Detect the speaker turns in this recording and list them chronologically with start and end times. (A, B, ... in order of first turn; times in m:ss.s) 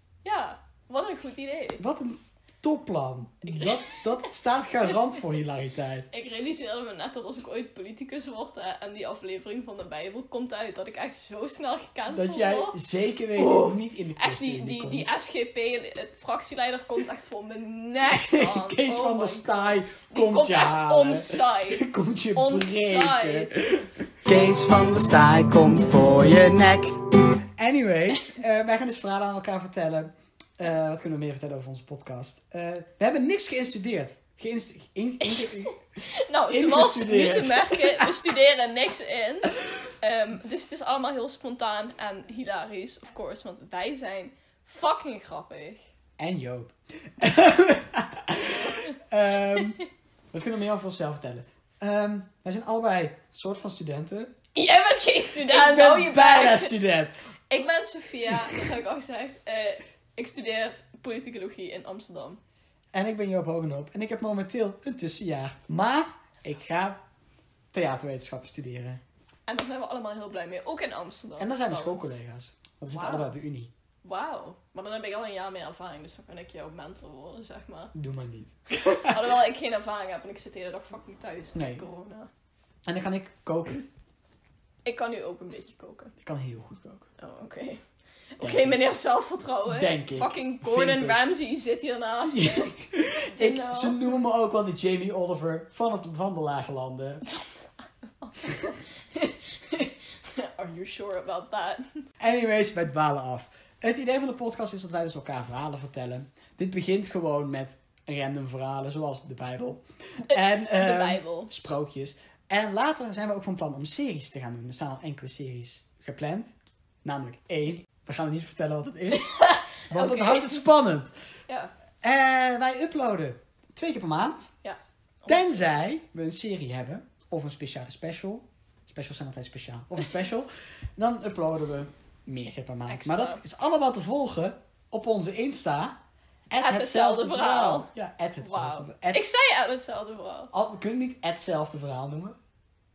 0:00.2-0:01.8 A
0:01.8-0:06.1 B
0:03.5-0:04.0 A
0:06.1-0:12.8 A
0:12.1-0:15.1 B
0:13.4-0:23.5 A
0:18.1-0:27.0 B
0:27.6-0:35.8 B
0:35.2-0:45.8 A
0:36.5-0:38.1 B
0:46.2-0:49.8 B
0:49.6-0:49.8 A
0:50.3-0:54.3 B
0:54.5-0:56.8 A
0:55.4-0:57.2 B
0:57.5-1:02.4 A
1:02.9-1:07.0 B
1:07.7-1:09.0 B
1:09.5-1:12.1 A
1:11.4-1:13.7 B
1:12.9-1:13.3 A
1:14.0-1:17.9 A
1:17.9-1:19.2 B
1:19.0-1:22.3 A
1:21.6-1:21.8 B
1:22.9-1:23.8 B
1:24.8-1:26.1 A
1:26.2-1:27.1 B
1:27.2-1:27.8 A
1:28.4-1:32.8 A
1:28.4-1:28.8 B
1:29.7-1:31.2 B
1:32.3-1:37.2 B
1:33.3-1:34.2 A
1:37.3-1:37.6 A
1:38.2-1:41.9 A
1:42.2-2:01.1 B
1:50.3-1:51.5 A
1:59.2-2:00.6 A
2:02.0-2:04.5 B
2:04.6-2:05.7 A
2:05.3-2:16.0 B
2:12.9-2:13.4 A
2:16.5-2:19.2 B
2:16.6-2:17.9 A
2:18.4-2:20.5 A
2:20.5-2:22.4 B